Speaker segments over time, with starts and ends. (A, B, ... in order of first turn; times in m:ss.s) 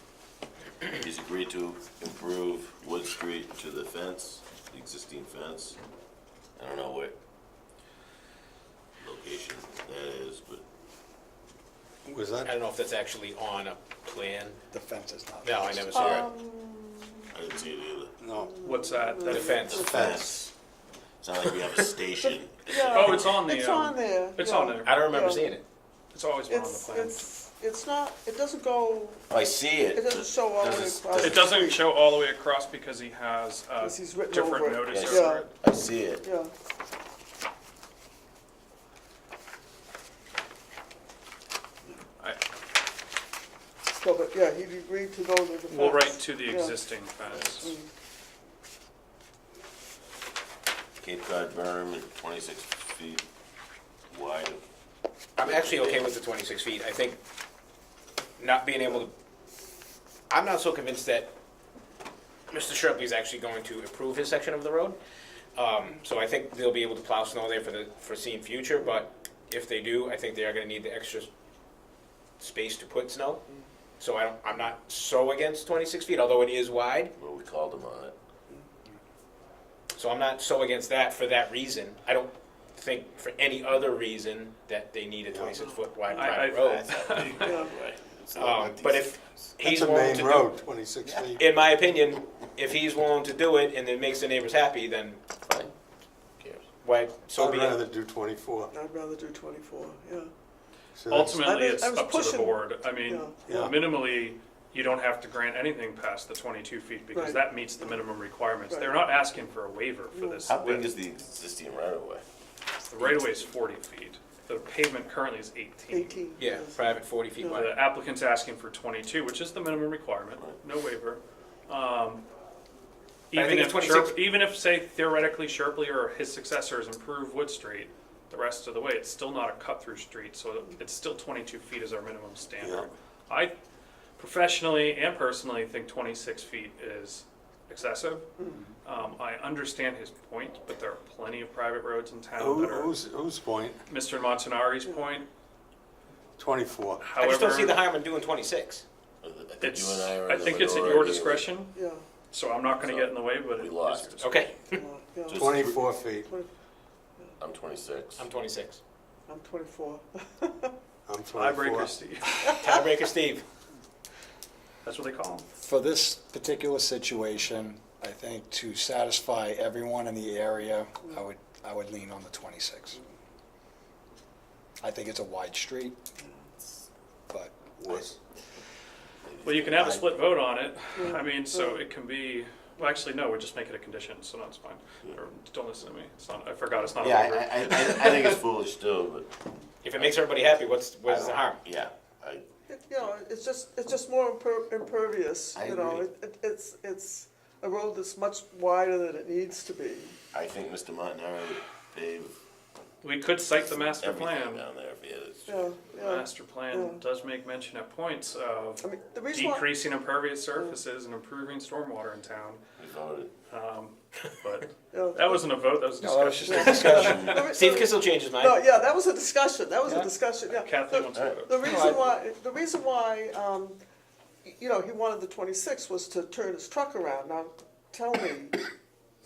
0:00.8-0:05.8 A
0:06.6-0:07.1 A
0:09.0-0:10.6 A
0:12.0-0:12.5 B
0:12.4-0:14.6 C
0:14.7-0:15.6 D
0:15.4-0:16.3 C
0:15.9-0:17.3 E
0:15.9-0:16.3 A
0:17.3-0:18.2 A
0:18.2-0:18.5 B
0:18.3-0:20.2 E
0:18.6-0:19.8 F
0:19.3-0:20.4 C
0:19.8-0:20.5 B
0:19.9-0:20.5 A
0:21.2-0:23.3 A
0:22.2-0:25.5 E
0:22.8-0:25.0 F
0:24.8-0:25.6 C
0:26.1-0:27.3 F
0:26.5-0:29.3 E
0:29.3-0:31.6 A
0:29.9-0:31.8 E
0:31.2-0:35.4 F
0:33.8-0:35.4 E
0:34.9-0:36.2 A
0:36.2-0:36.5 E
0:43.9-0:46.8 E
0:45.7-0:47.7 F
0:47.3-0:47.7 A
0:47.6-0:47.9 E
0:51.0-0:53.2 A
0:54.1-0:54.6 A
0:55.4-0:57.2 C
0:55.4-0:56.1 A
0:58.4-0:59.1 C
1:00.3-1:01.3 C
1:02.5-1:05.0 C
1:05.6-1:11.3 C
1:12.4-1:13.4 C
1:14.0-1:17.1 C
1:17.2-1:18.1 A
1:19.9-1:26.8 C
1:25.3-1:25.5 B
1:26.1-1:27.6 F
1:26.5-1:29.6 A
1:27.3-1:27.7 E
1:28.4-1:30.6 C
1:29.6-1:31.4 B
1:31.3-1:35.2 C
1:35.4-1:35.7 A
1:36.4-1:36.7 A
1:36.8-1:37.8 C
1:37.4-1:38.7 B
1:38.7-1:40.3 E
1:40.9-1:41.4 B
1:41.1-1:50.9 F
1:41.3-1:43.4 E
1:43.4-1:43.9 B
1:47.1-1:48.0 E
1:48.7-1:49.0 E
1:50.1-1:50.4 E
1:50.4-1:52.2 A
1:52.8-1:56.2 F
1:53.0-1:53.5 A
1:55.9-1:56.8 E
1:56.4-1:57.7 C
1:57.4-1:57.7 E
1:57.5-2:02.2 F
2:03.3-2:13.5 F
2:03.3-2:04.2 C
2:12.6-2:12.9 B
2:14.2-2:22.9 F
2:22.4-2:23.8 B
2:23.9-2:25.3 F
2:26.4-2:27.0 B
2:27.0-2:27.8 F
2:27.2-2:28.8 C
2:29.2-2:31.6 A
2:29.6-2:34.5 F
2:31.7-2:32.1 E
2:32.7-2:34.4 A
2:34.2-2:34.8 C
2:34.7-2:35.5 E
2:35.3-2:35.9 A
2:35.4-2:36.3 B
2:36.2-2:36.5 E
2:37.4-2:38.2 A
2:38.2-2:38.8 C
2:39.3-2:40.7 E
2:41.1-2:42.0 B
2:41.3-2:42.6 F
2:42.5-2:43.4 C
2:44.8-2:45.5 F
2:45.6-2:53.0 D
2:54.8-2:56.0 D
2:57.3-2:58.1 D
2:57.8-2:58.2 B
2:59.2-3:00.4 A
2:59.4-3:08.4 F
3:01.0-3:01.8 E
3:07.0-3:09.4 A
3:09.8-3:11.6 C
3:09.9-3:10.2 A
3:11.1-3:12.4 A
3:12.7-3:20.2 E
3:15.5-3:16.0 A
3:20.3-3:22.4 A
3:23.0-3:24.6 F
3:23.5-3:25.7 A
3:25.4-3:27.0 E
3:26.0-3:32.6 F
3:28.8-3:29.7 E
3:32.8-3:33.3 A
3:33.5-3:37.4 F
3:34.9-3:35.4 E
3:36.0-3:37.2 D
3:36.5-3:43.8 E
3:36.6-3:38.6 C
3:39.8-3:40.1 D
3:40.5-3:42.0 F
3:41.1-3:41.4 A
3:41.6-3:42.1 D
3:44.4-3:48.6 E